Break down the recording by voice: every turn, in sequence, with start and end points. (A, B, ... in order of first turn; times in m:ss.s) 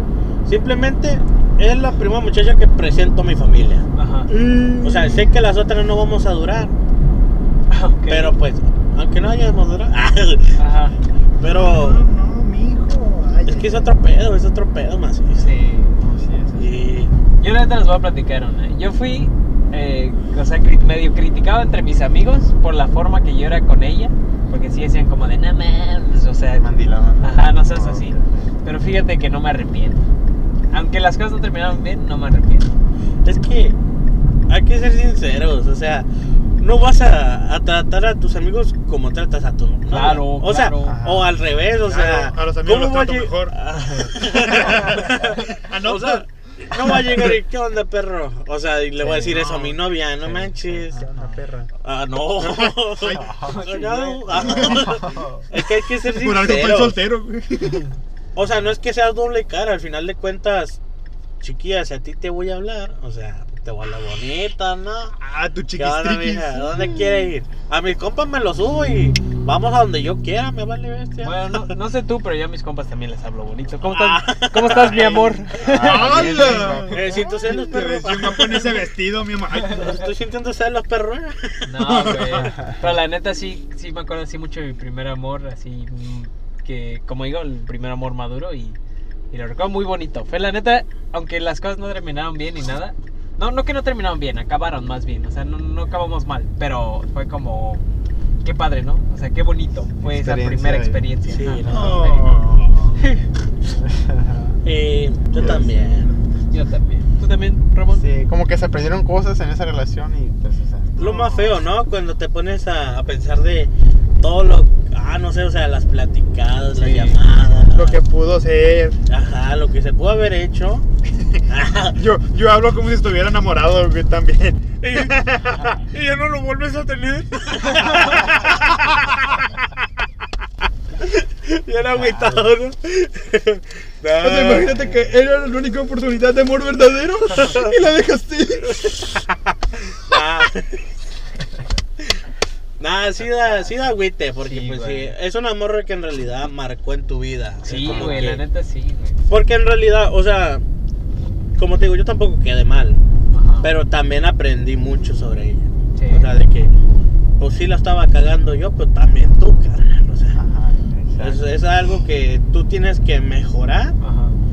0:00.4-0:03.8 A
0:03.9-0:04.3 B
0:04.3-0:05.4 C
0:04.8-0:06.7 A
0:07.7-0:08.4 B
0:08.1-0:10.6 A
0:10.6-0:10.9 B
0:11.4-0:12.0 A
0:11.4-0:13.9 C
0:13.4-0:15.5 A
0:15.4-0:16.0 B
0:16.0-0:16.9 D
0:16.6-0:17.1 A
0:17.4-0:30.1 B
0:26.5-0:28.5 D
0:30.7-0:32.7 B
0:33.2-0:33.8 A
0:34.5-0:36.1 A
0:36.6-0:51.1 A
0:39.9-0:41.0 B
0:40.9-0:41.2 D
0:40.9-0:41.2 C
0:41.8-0:43.6 C
0:44.2-0:47.4 C
0:49.0-0:49.6 B
0:49.3-0:49.7 C
0:50.9-0:51.7 C
0:51.1-0:51.4 D
0:51.8-0:57.0 A
0:52.4-0:53.6 C
0:53.2-0:53.6 D
0:53.4-0:54.9 B
0:54.3-0:55.4 D
0:54.4-0:57.9 C
0:58.3-1:00.8 A
1:01.4-1:05.2 A
1:05.2-1:07.0 C
1:05.8-1:11.6 A
1:11.2-1:16.9 B
1:13.8-1:16.3 A
1:15.6-1:19.9 C
1:15.6-1:17.2 D
1:16.8-1:18.8 A
1:19.7-1:21.7 A
1:21.6-1:28.8 B
1:21.8-1:22.6 C
1:22.4-1:22.8 D
1:29.3-1:37.8 B
1:38.4-1:42.4 B
1:40.0-1:41.9 D
1:41.3-1:42.0 A
1:41.6-1:42.9 C
1:43.0-1:43.2 B
1:43.9-1:44.6 D
1:44.6-1:46.1 A
1:45.3-1:46.1 D
1:46.5-1:48.0 B
1:47.9-1:50.9 D
1:51.0-1:58.0 A
1:51.0-1:51.6 B
1:56.8-1:57.2 B
1:57.7-1:59.0 C
1:59.1-2:00.8 A
2:01.5-2:02.0 A
2:01.9-2:05.8 C
2:04.8-2:08.6 A
2:07.7-2:08.5 C
2:11.0-2:14.9 A
2:11.9-2:12.5 D
2:14.2-2:19.3 C
2:14.6-2:15.0 D
2:20.1-2:20.9 A
2:22.8-2:28.4 A
2:24.4-2:25.1 B
2:27.6-2:29.2 B
2:27.7-2:28.3 D
2:29.3-2:30.6 A
2:31.6-2:33.0 A
2:33.3-2:33.7 B
2:33.6-2:36.7 A
2:35.9-2:36.3 B
2:37.4-2:40.4 A
2:40.3-2:41.4 D
2:41.2-2:44.0 A
2:44.0-2:44.4 B